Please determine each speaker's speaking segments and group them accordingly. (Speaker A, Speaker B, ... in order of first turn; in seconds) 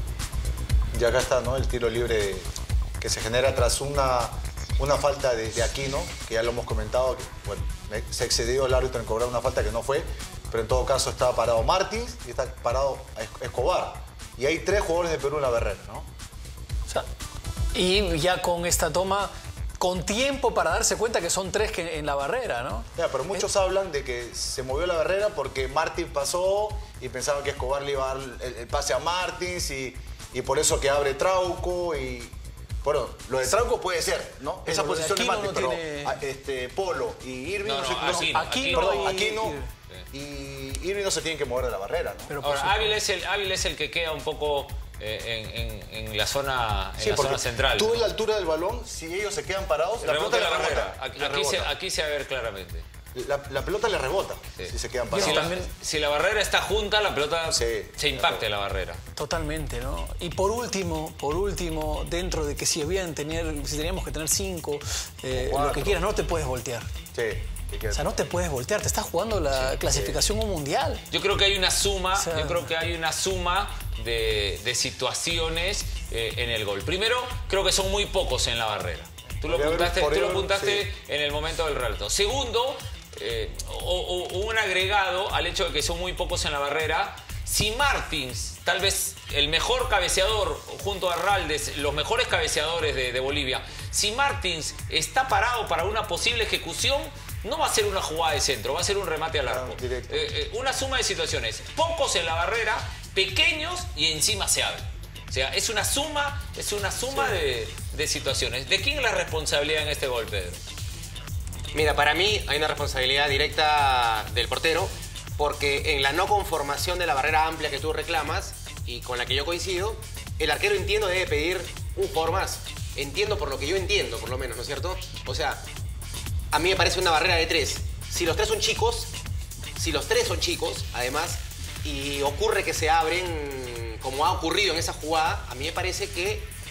Speaker A: 0.9-2.5, 3.0-16.1, 22.9-42.3, 47.0-51.7, 53.1-55.5, 57.5-58.5, 65.3-66.0, 67.1-68.2, 69.7-70.2, 79.4-80.9, 99.5-100.3
Speaker B: 17.7-23.4, 34.6-36.2, 38.1-39.7, 42.3-43.0, 55.1-55.7, 59.1-66.9, 67.9-71.0, 72.1-72.7
Speaker C: 37.6-39.2, 42.4-48.0, 50.0-52.8, 54.6-59.0, 71.1-110.6
Speaker D: 111.7-125.6, 126.5-129.1, 129.8-136.5